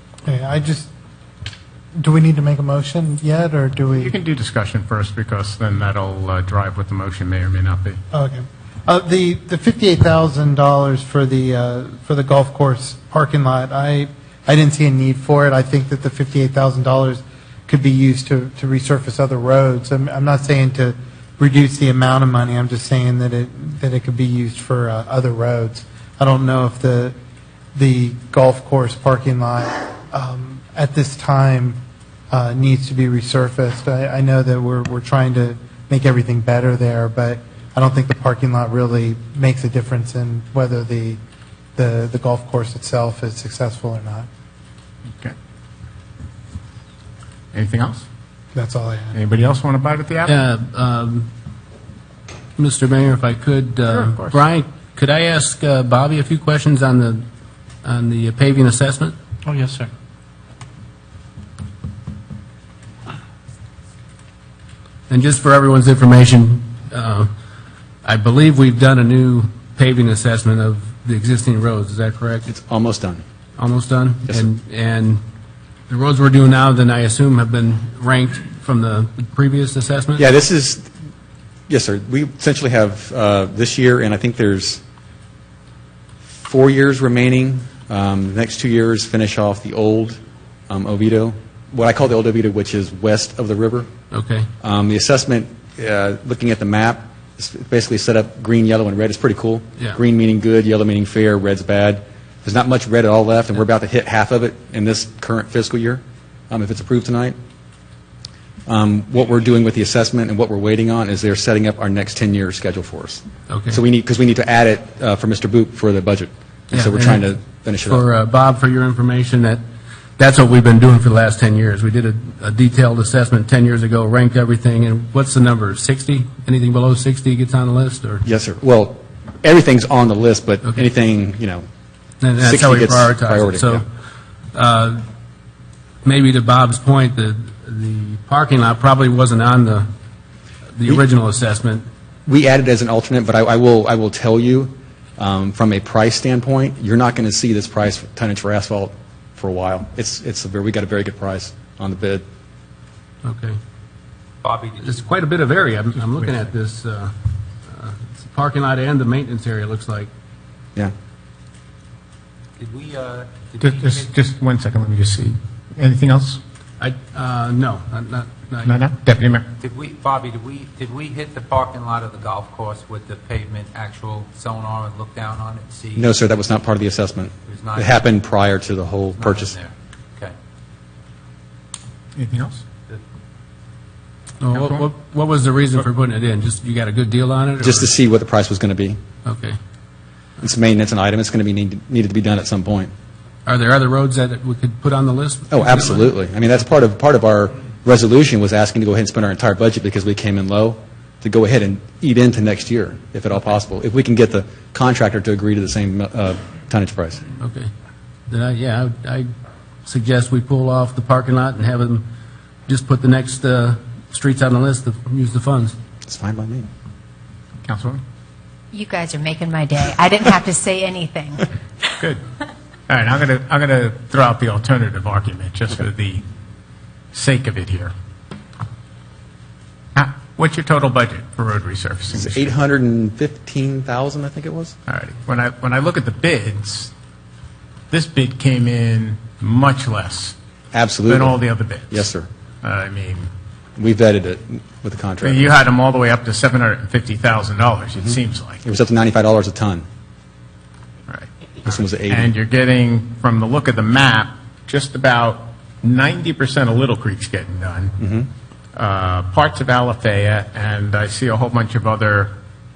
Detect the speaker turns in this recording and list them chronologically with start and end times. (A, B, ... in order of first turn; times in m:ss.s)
0:00.2-0:00.9 A
0:02.0-0:04.1 A
0:03.9-0:08.0 B
0:08.1-0:27.1 A
0:27.7-0:31.8 A
0:32.3-0:41.2 A
0:41.8-0:44.3 A
0:47.5-0:48.0 B
0:48.5-0:49.2 A
0:49.1-0:50.4 B
0:50.2-0:51.3 C
0:52.6-0:57.2 C
0:53.9-0:54.4 B
0:57.8-0:59.2 C
1:05.1-1:07.3 C
1:08.0-1:12.5 C
1:12.5-1:13.2 D
1:13.6-1:15.2 C
1:15.9-1:20.2 C
1:20.2-1:20.9 D
1:21.7-1:24.8 D
1:26.3-1:33.9 D
1:34.1-1:34.5 C
1:34.6-1:47.4 D
1:48.7-1:58.0 D
1:53.5-1:53.8 C
1:56.7-1:57.2 C
1:57.8-1:59.6 C
2:00.2-2:08.2 C
2:08.2-2:11.6 D
2:12.2-2:13.8 C
2:12.4-2:13.8 D
2:14.5-2:15.0 C
2:16.0-2:19.9 C
2:20.7-2:21.8 C
2:22.2-2:32.2 D
2:33.2-2:33.6 C
2:34.4-2:35.1 E
2:34.8-2:37.1 C
2:37.7-2:40.1 C
2:42.6-2:44.1 E
2:43.6-2:46.4 B
2:46.8-2:48.8 C
2:48.6-2:49.5 B
2:49.6-2:56.1 E
2:55.9-2:59.5 D
2:57.4-2:58.1 E
2:59.1-3:00.3 E
3:02.1-3:02.6 B
3:04.4-3:07.9 C
3:04.5-3:04.8 B
3:07.6-3:09.0 D
3:09.2-3:09.6 C
3:10.4-3:12.9 D
3:13.4-3:16.1 C
3:15.5-3:27.2 D
3:27.4-3:27.7 C
3:28.3-3:29.3 C
3:29.8-3:32.0 C
3:32.7-3:35.7 C
3:36.1-3:36.7 D
3:37.6-3:38.0 B
3:38.7-3:41.4 F
3:42.9-3:46.2 B
3:47.1-3:47.9 B
3:49.9-3:52.5 B
3:52.1-3:54.7 D
3:54.9-3:56.9 B
3:57.9-4:00.4 B
4:00.7-4:01.4 D
4:01.1-4:02.1 B
4:01.9-4:02.3 D
4:02.6-4:03.3 B
4:03.8-4:05.5 D
4:05.2-4:08.6 B
4:08.0-4:09.8 D
4:11.6-4:12.3 D
4:12.1-4:17.9 B
4:18.0-4:18.3 D
4:18.7-4:22.3 B